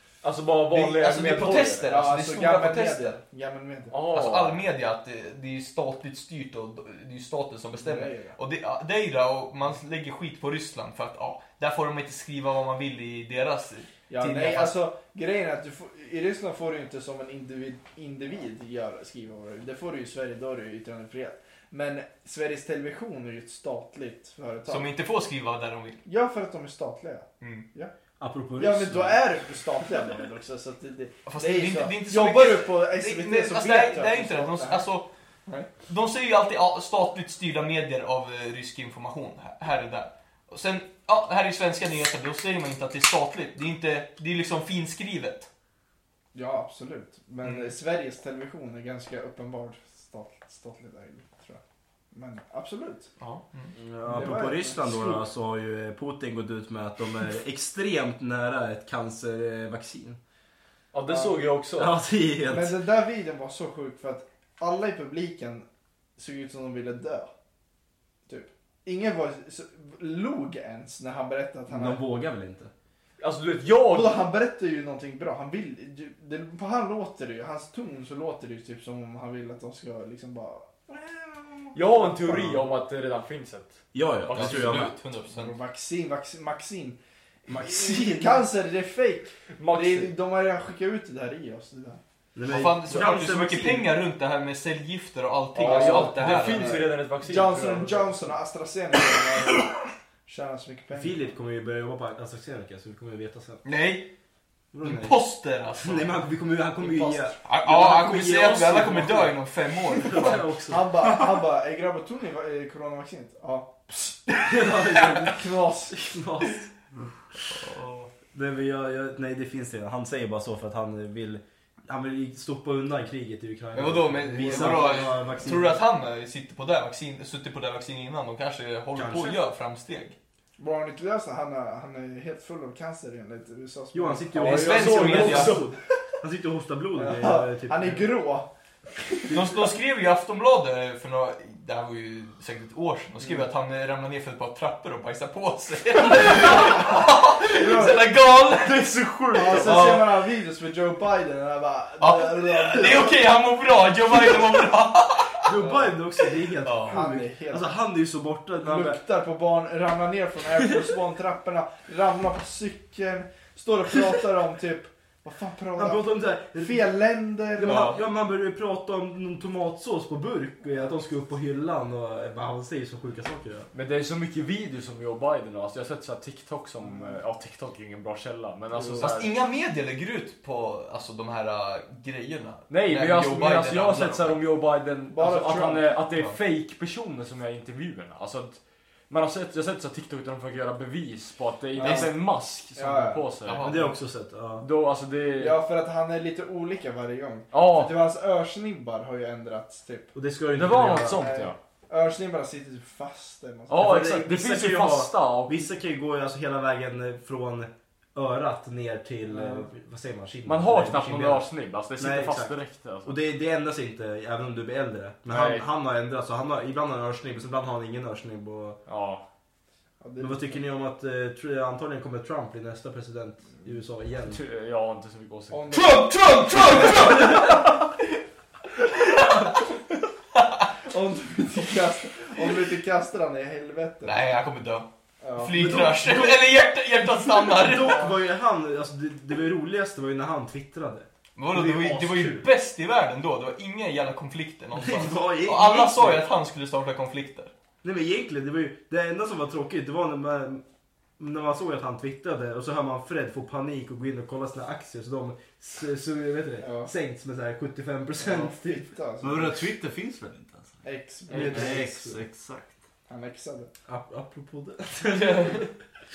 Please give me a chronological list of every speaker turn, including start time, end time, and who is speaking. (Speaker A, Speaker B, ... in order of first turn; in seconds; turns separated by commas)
Speaker A: 0.2-1.9, Speaker B: 0.7-3.2, Speaker C: 1.3-3.9, Speaker A: 3.9-4.6, Speaker B: 4.1-14.8, Speaker C: 7.8-8.3, Speaker C: 14.1-24.9, Speaker B: 24.7-26.0, Speaker C: 26.0-27.9, Speaker B: 27.4-27.6, Speaker D: 28.2-29.3, Speaker C: 28.6-34.9, Speaker B: 31.2-35.1, Speaker B: 35.9-45.5, Speaker C: 46.3-51.6, Speaker B: 47.4-47.7, Speaker C: 52.1-53.1, Speaker B: 53.2-53.7, Speaker D: 53.8-60.2, Speaker C: 54.1-55.2, Speaker A: 60.9-62.0, Speaker C: 61.1-61.5, Speaker D: 61.8-62.8, Speaker C: 62.5-65.7, Speaker C: 66.2-67.3, Speaker C: 68.3-72.0, Speaker D: 71.7-72.7, Speaker A: 73.2-74.2, Speaker C: 73.9-82.6, Speaker A: 81.7-84.9, Speaker D: 83.9-85.0, Speaker B: 84.3-85.5, Speaker C: 85.3-87.0, Speaker D: 87.5-88.5, Speaker C: 87.5-92.0, Speaker A: 89.5-90.1, Speaker D: 92.3-93.9, Speaker B: 92.5-96.9, Speaker C: 95.5-99.7, Speaker A: 95.6-98.3, Speaker D: 95.6-96.4, Speaker C: 100.2-101.2, Speaker D: 100.9-103.6, Speaker B: 103.6-104.1, Speaker D: 104.7-105.2, Speaker B: 104.8-106.2, Speaker D: 105.8-109.4, Speaker B: 107.4-110.5, Speaker D: 109.9-110.9, Speaker C: 110.7-114.4, Speaker D: 114.4-116.7, Speaker C: 115.2-116.2, Speaker B: 117.5-118.1, Speaker D: 118.3-125.8, Speaker B: 123.7-130.2, Speaker C: 124.5-125.0, Speaker D: 128.9-129.4, Speaker C: 130.6-135.8, Speaker D: 133.9-138.1, Speaker B: 134.3-135.7, Speaker A: 134.8-135.7, Speaker C: 136.9-139.7, Speaker B: 139.3-148.9, Speaker C: 143.2-143.5, Speaker C: 146.3-148.0, Speaker A: 148.6-149.8, Speaker C: 149.3-153.2, Speaker B: 149.4-150.1, Speaker B: 152.0-155.5, Speaker D: 155.4-159.0, Speaker C: 155.6-155.9, Speaker B: 156.6-157.0, Speaker C: 156.8-157.7, Speaker C: 158.6-167.9, Speaker D: 165.7-166.9, Speaker D: 167.5-173.7, Speaker B: 167.6-168.0, Speaker A: 173.7-179.3, Speaker C: 176.8-177.2, Speaker C: 178.7-179.1, Speaker B: 179.0-184.4, Speaker A: 182.7-193.7, Speaker C: 185.1-185.9, Speaker C: 191.8-192.2, Speaker B: 191.8-192.1, Speaker C: 192.7-193.3, Speaker B: 193.4-194.0, Speaker D: 193.6-194.7, Speaker A: 194.6-195.6, Speaker C: 195.4-200.1, Speaker A: 197.5-198.0, Speaker D: 200.1-201.3, Speaker A: 200.5-201.6, Speaker C: 201.1-203.9, Speaker A: 203.7-205.7, Speaker D: 203.7-218.8, Speaker C: 209.3-209.7, Speaker A: 210.4-213.2, Speaker A: 215.2-215.7, Speaker A: 218.8-219.2, Speaker C: 220.0-220.6, Speaker D: 220.2-224.4, Speaker A: 224.2-225.7, Speaker C: 225.5-226.1, Speaker B: 225.7-227.9, Speaker B: 228.9-229.6, Speaker C: 230.9-234.2, Speaker B: 234.0-238.1, Speaker C: 235.2-235.5, Speaker D: 235.5-236.4, Speaker D: 237.2-242.4, Speaker B: 241.3-247.5, Speaker D: 244.7-246.2, Speaker D: 247.8-250.6, Speaker D: 251.2-258.9, Speaker C: 256.6-256.9, Speaker C: 258.2-259.6, Speaker E: 259.2-260.8, Speaker C: 260.8-261.8, Speaker D: 261.3-262.2, Speaker E: 261.4-262.7, Speaker C: 263.1-263.7, Speaker D: 263.9-265.8